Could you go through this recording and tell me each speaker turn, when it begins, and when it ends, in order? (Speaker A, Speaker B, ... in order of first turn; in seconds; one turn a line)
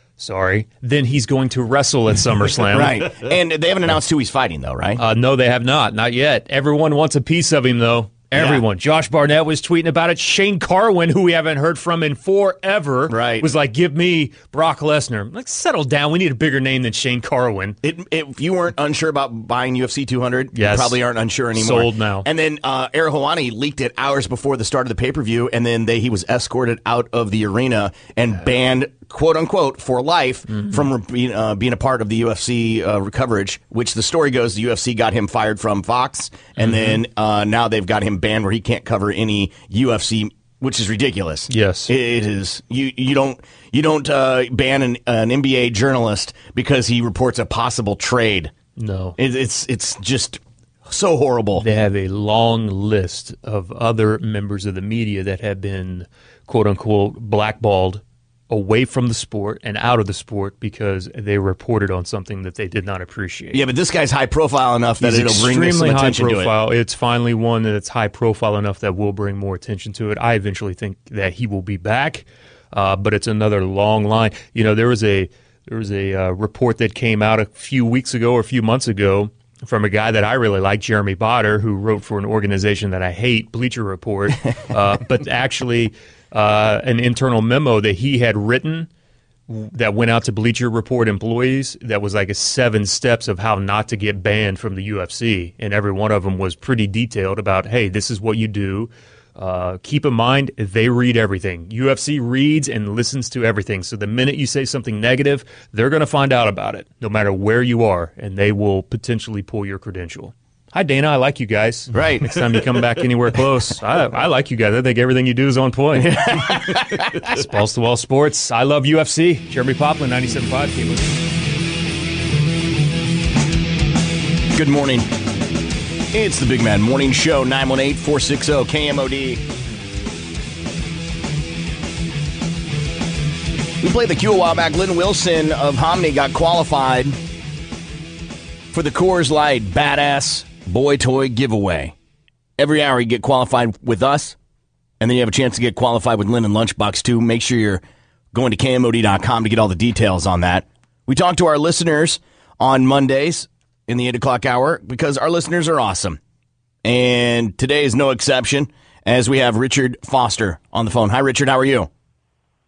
Speaker A: 0.2-3.0
Speaker B: 2.7-5.0
Speaker A: 5.0-17.8
Speaker B: 8.3-8.6
Speaker B: 13.1-13.5
Speaker B: 17.8-48.5
Speaker A: 20.5-21.0
Speaker A: 21.5-22.3
Speaker A: 30.5-30.8
Speaker A: 36.6-37.0
Speaker A: 41.5-41.9
Speaker A: 48.8-49.2
Speaker B: 49.2-51.6
Speaker A: 51.6-63.6
Speaker B: 63.5-66.5
Speaker A: 65.0-88.9
Speaker A: 89.5-116.2
Speaker B: 111.9-112.4
Speaker B: 115.9-117.3
Speaker A: 117.3-121.1
Speaker B: 124.5-125.1
Speaker B: 126.1-129.4
Speaker B: 133.8-137.2
Speaker B: 138.7-141.9
Speaker B: 142.6-144.3
Speaker B: 145.0-147.8
Speaker B: 148.3-156.2
Speaker B: 156.8-161.9